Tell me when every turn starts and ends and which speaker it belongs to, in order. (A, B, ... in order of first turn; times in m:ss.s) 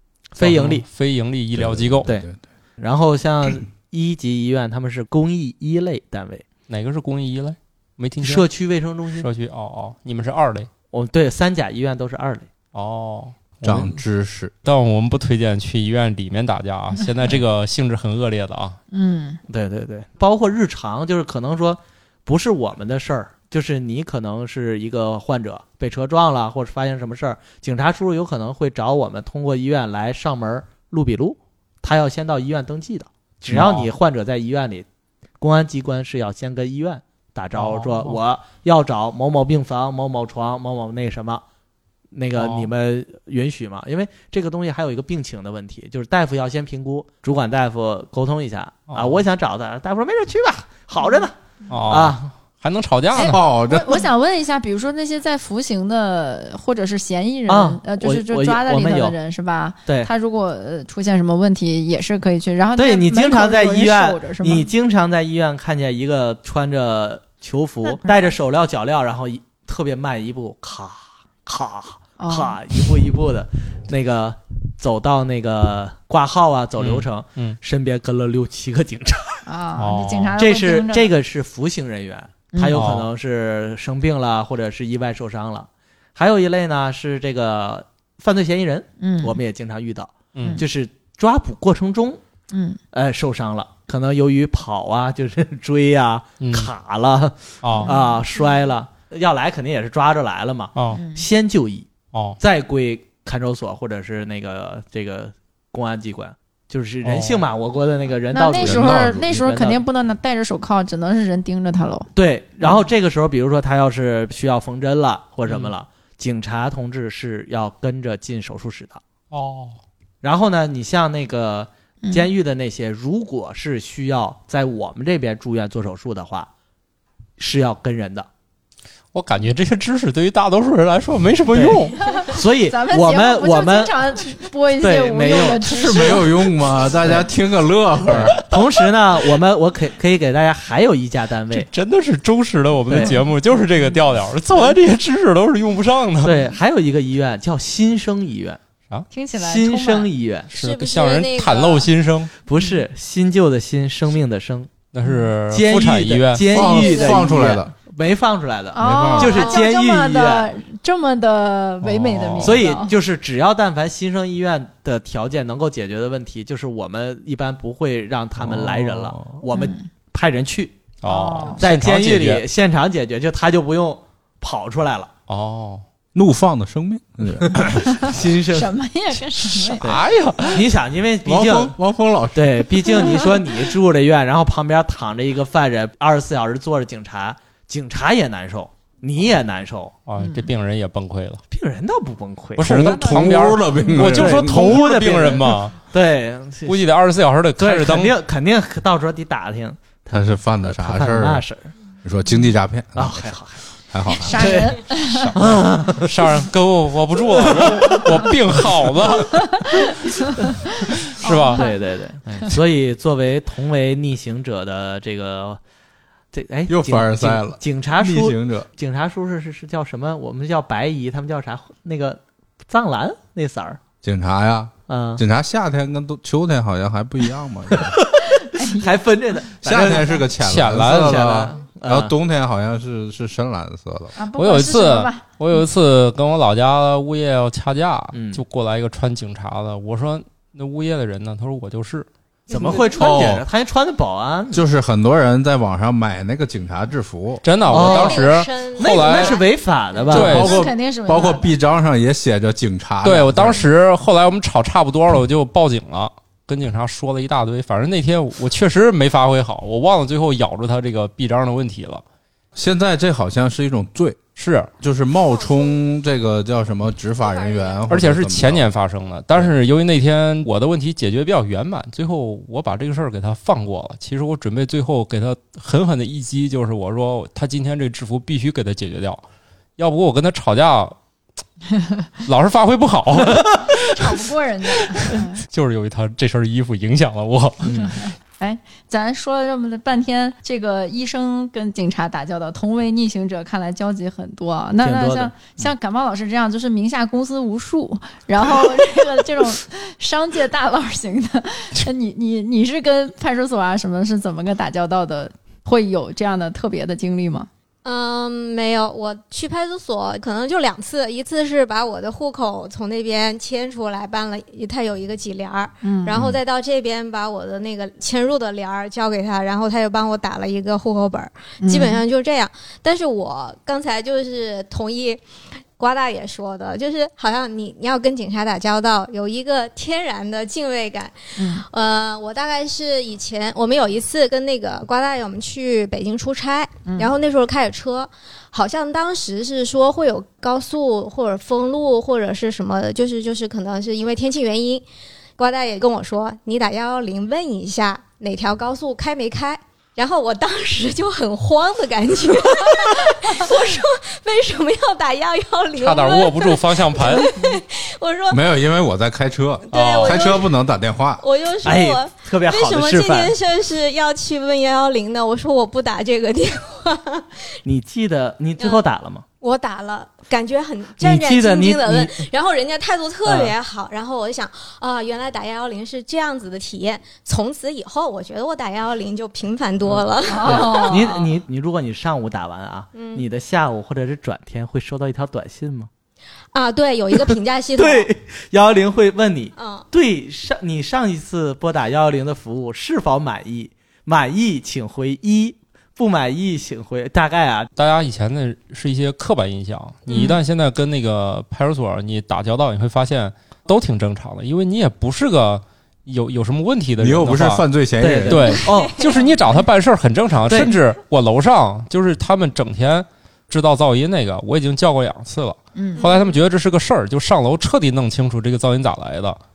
0:00.4-0:00.8 A
0:00.4-0:02.1 B
0:01.5-0:02.4 C
0:02.8-0:06.4 A
0:06.7-0:08.4 B
0:08.2-0:09.3 A
0:09.1-0:10.7 B
0:10.9-0:12.5 A
0:12.7-0:14.0 B
0:13.6-0:14.5 C
0:14.6-0:18.8 B
0:18.9-0:19.4 D
0:19.5-0:34.8 A
0:33.5-0:33.9 B
0:35.4-0:41.4 A
0:37.5-0:38.2 B
0:42.1-0:51.4 A
0:42.4-0:42.7 B
0:48.9-0:49.2 B
0:51.7-0:53.4 B
0:51.9-0:52.3 A
0:53.1-1:04.7 D
0:53.2-0:54.1 C
0:57.5-0:59.2 A
1:02.8-1:19.4 A
1:07.8-1:08.2 D
1:12.2-1:12.6 D
1:16.8-1:17.6 B
1:19.4-1:21.1 D
1:19.8-1:20.4 B
1:20.4-1:32.2 A
1:22.5-1:22.8 D
1:22.7-1:23.1 B
1:29.0-1:29.4 D
1:30.3-1:30.6 B
1:32.5-1:32.8 D
1:32.9-1:41.9 A
1:36.4-1:36.7 B
1:37.6-1:37.9 B
1:37.7-1:38.2 D
1:40.7-1:41.0 B
1:40.9-1:41.2 D
1:42.1-1:42.4 B
1:42.4-1:49.8 A
1:47.0-1:47.4 B
1:48.3-1:52.1 D
1:48.6-1:49.3 C
1:52.1-1:59.0 A
1:59.3-1:59.8 B
2:00.2-2:06.5 A
2:02.0-2:02.3 D
2:07.4-2:08.3 A
2:09.1-2:12.2 B
2:11.5-2:13.9 A
2:12.7-2:16.3 D
2:14.8-2:16.2 A
2:15.6-2:18.4 C
2:18.0-2:21.7 A
2:21.5-2:26.4 B
2:22.9-2:23.2 A
2:26.2-2:28.6 A
2:29.1-2:30.1 D
2:29.3-2:30.5 A
2:30.5-2:31.9 E
2:30.5-2:32.3 B
2:32.4-2:34.7 A
2:34.9-2:36.5 B
2:35.0-2:35.3 D
2:35.5-2:40.5 A
2:36.5-2:37.7 C
2:36.7-2:37.2 E
2:38.7-2:42.9 D
2:38.8-2:39.5 C
2:41.8-2:42.6 B
2:42.4-2:50.7 A
2:48.4-2:49.4 C
2:49.5-2:49.8 D
2:51.0-2:52.4 B
2:51.0-2:51.6 D
2:51.6-2:55.1 A
2:55.3-2:55.8 B
2:56.1-2:58.0 C
2:57.4-2:58.7 A
2:57.9-2:59.9 D
2:59.8-3:01.8 A
2:59.8-3:00.6 B
3:01.2-3:03.2 C
3:02.3-3:09.9 A
3:10.1-3:11.4 B
3:10.2-3:10.5 D
3:11.5-3:16.8 A
3:12.6-3:15.8 B
3:12.6-3:14.8 C
3:16.6-3:18.1 B
3:17.6-3:21.7 A
3:20.1-3:21.4 C
3:22.0-3:23.3 C
3:23.0-3:23.6 A
3:23.9-3:24.6 C
3:24.2-3:24.8 A
3:24.2-3:25.3 D
3:25.0-3:29.4 B
3:25.3-3:26.1 A
3:27.4-3:28.3 A
3:29.3-3:29.8 D
3:31.1-3:31.6 B
3:31.2-3:31.8 D
3:31.2-3:35.6 A
3:36.3-3:43.8 A
3:36.7-3:38.7 C
3:44.0-3:48.0 C
3:44.9-3:45.2 A
3:47.7-3:52.1 A
3:48.4-3:48.9 D
3:49.6-3:54.2 C
3:50.4-3:51.2 B
3:54.2-3:55.6 D
3:54.4-4:02.1 B
3:58.1-3:58.4 A
4:02.5-4:04.6 A
4:02.9-4:03.4 C
4:04.5-4:07.4 C
4:07.4-4:09.4 B
4:07.7-4:09.4 E
4:07.7-4:10.6 A
4:10.1-4:11.5 D
4:10.1-4:10.6 B
4:10.1-4:13.7 C
4:13.0-4:22.0 B
4:22.6-4:24.2 C
4:24.4-4:24.7 B
4:24.8-4:28.6 C
4:25.3-4:25.8 E
4:27.2-4:27.8 E
4:27.9-4:39.2 B
4:39.8-4:41.0 B
4:42.2-4:43.7 B
4:43.7-4:45.4 D
4:45.0-4:47.9 B
4:47.6-4:48.0 A
4:47.8-5:07.5 D
4:54.8-4:55.7 A
5:07.8-5:25.2 E
5:15.8-5:16.2 D
5:21.6-5:22.0 D
5:25.8-5:44.8 E
5:31.4-5:31.6 D
5:36.8-5:37.1 D
5:45.4-5:58.4 E
5:55.8-5:57.4 B
5:58.3-6:01.2 C
5:59.7-6:00.5 E
5:59.7-6:00.4 B
6:01.2-6:07.4 E
6:01.6-6:03.3 A
6:07.6-6:09.2 A
6:09.4-6:21.2 E
6:11.0-6:12.2 A
6:13.2-6:13.5 A
6:19.8-6:25.9 A
6:20.3-6:21.2 D
6:22.9-6:23.2 E
6:26.5-6:28.1 E
6:27.2-6:37.7 A
6:29.6-6:29.8 E
6:37.8-6:47.6 B
6:40.1-6:40.4 D
6:47.0-6:48.6 C
6:48.0-6:49.0 A
6:48.3-6:59.4 B
6:48.6-6:49.3 E
6:50.5-6:50.7 A
6:55.7-6:56.1 D
6:56.0-6:56.3 E